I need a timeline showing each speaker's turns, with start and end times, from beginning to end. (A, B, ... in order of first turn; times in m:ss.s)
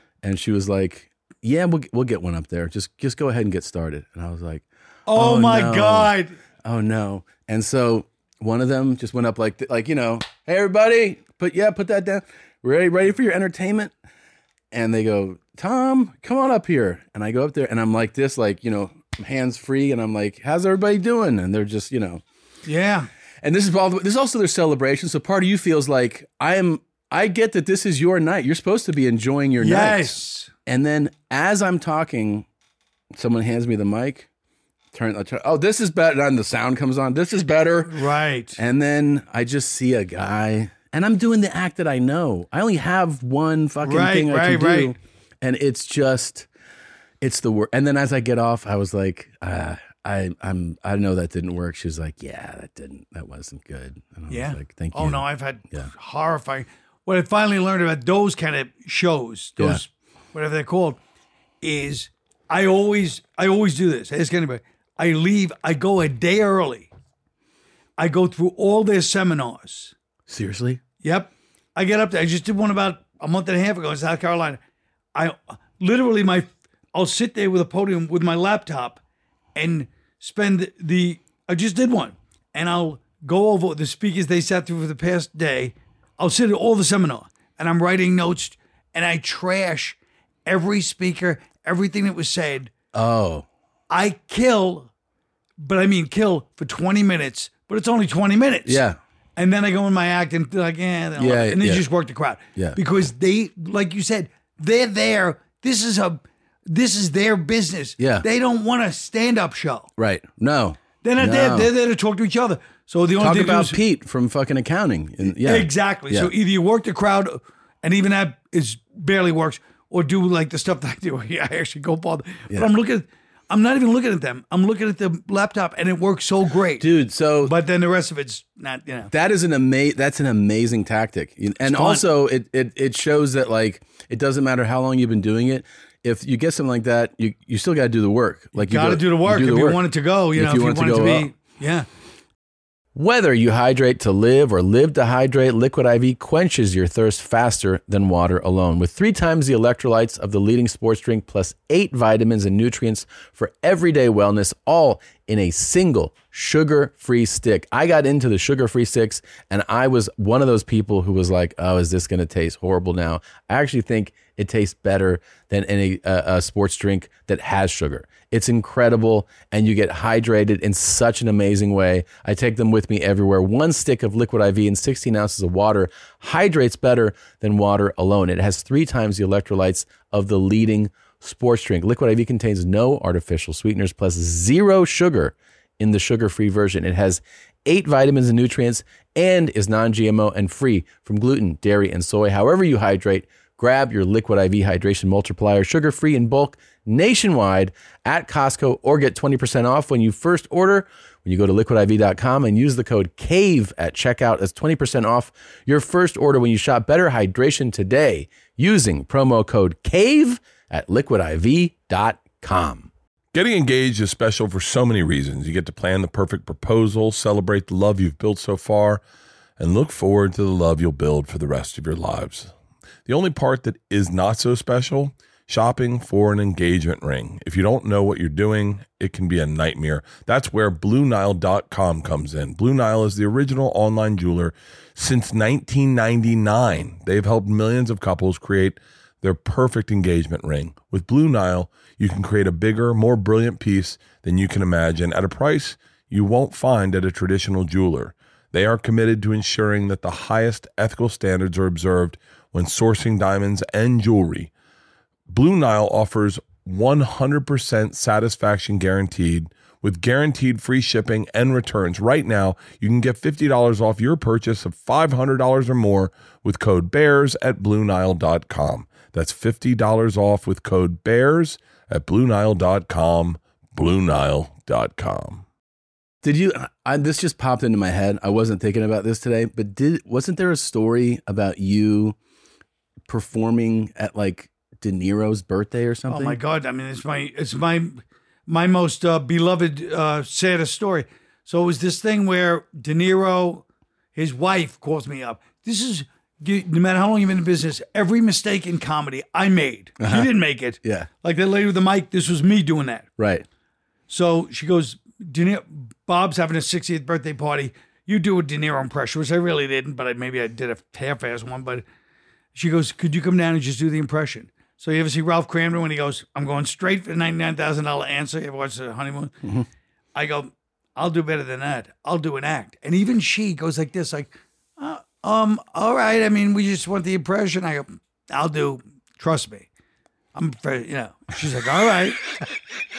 0:00.2-0:13.9 A
0:05.1-0:06.4 B
0:14.7-0:22.2 A
0:22.6-0:23.1 B
0:23.4-0:32.5 A
0:29.6-0:30.5 B
0:33.1-0:34.3 A
0:34.9-0:38.0 A
0:37.9-0:38.6 B
0:38.6-0:46.5 A
0:43.8-0:44.9 B
0:47.2-0:55.9 A
0:54.3-1:01.0 B
1:01.6-1:06.9 B
1:08.0-1:09.9 B
1:10.3-1:10.8 A
1:11.0-1:14.6 B
1:15.1-1:19.0 B
1:19.6-1:32.7 B
1:32.9-1:33.5 A
1:33.9-1:34.9 B
1:35.6-1:38.8 B
1:38.7-1:39.0 A
1:39.4-1:49.9 B
1:41.2-1:41.9 A
1:48.0-1:48.3 A
1:50.0-1:51.7 A
1:51.0-1:53.8 B
1:53.2-1:56.3 A
1:55.2-2:06.9 B
2:06.8-2:07.5 A
2:07.4-2:09.1 B
2:09.1-2:19.8 A
2:11.6-2:12.0 B
2:18.6-2:21.9 B
2:20.4-2:21.3 A
2:22.9-3:32.9 A
3:33.3-3:39.0 C
3:39.6-3:42.5 C
3:43.1-4:14.5 C
4:15.3-4:35.4 C
4:36.2-4:42.2 A
4:43.1-4:46.4 A
4:46.1-5:03.1 B
5:00.0-5:00.3 A
5:00.8-5:01.1 A
5:03.2-5:03.5 A
5:04.1-5:11.8 B
5:12.5-5:19.4 B
5:20.1-5:29.7 B
5:30.3-5:32.2 B